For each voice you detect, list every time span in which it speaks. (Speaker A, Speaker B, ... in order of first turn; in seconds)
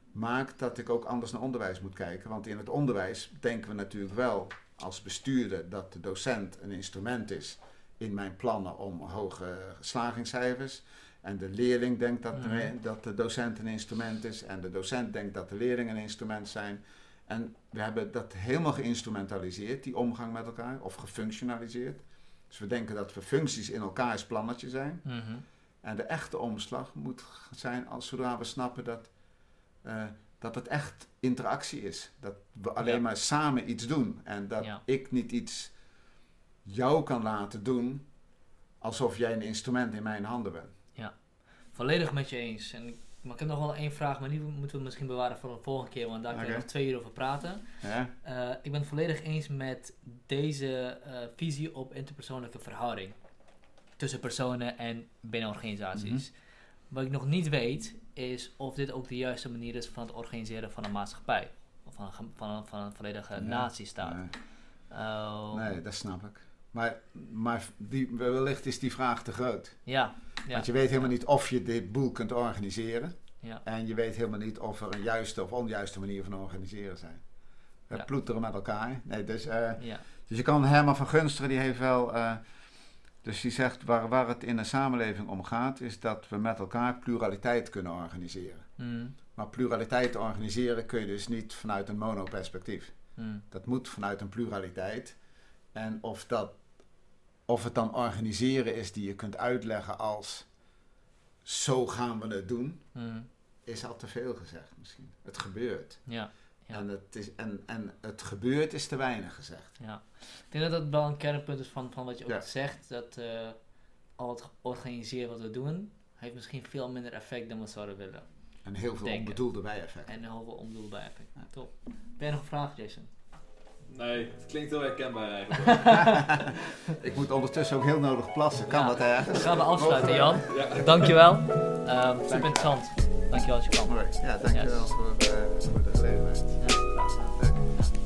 Speaker A: 0.1-25.1, 25.8-29.1, 29.8-35.7, 36.6-38.1, 38.8-40.8, 46.3-46.7, 47.8-48.1, 56.0-56.2, 63.4-64.3, 65.5-69.8, 70.5-77.2, 77.9-82.4, 83.2-88.7, 89.4-92.9, 93.5-95.2, 95.7-96.6, 97.5-100.5, 101.5-102.9, 103.7-106.0, 106.7-109.8, 118.7-120.1, 125.9-130.7, 132.3-132.8, 133.8-136.7, 137.2-137.9
Speaker B: 12.4-12.7, 25.1-25.4, 41.7-47.7, 48.2-53.1, 54.0-56.3, 56.9-64.2, 64.9-65.8, 69.9-71.1, 79.8-80.0, 88.8-89.2, 93.2-93.5, 103.0-103.3, 106.1-106.8, 109.8-113.6, 114.2-118.3, 119.0-119.4, 120.1-123.1, 125.7-126.9, 128.7-134.0, 134.5-134.9, 136.6-137.4
Speaker C: 123.9-126.4, 130.5-131.1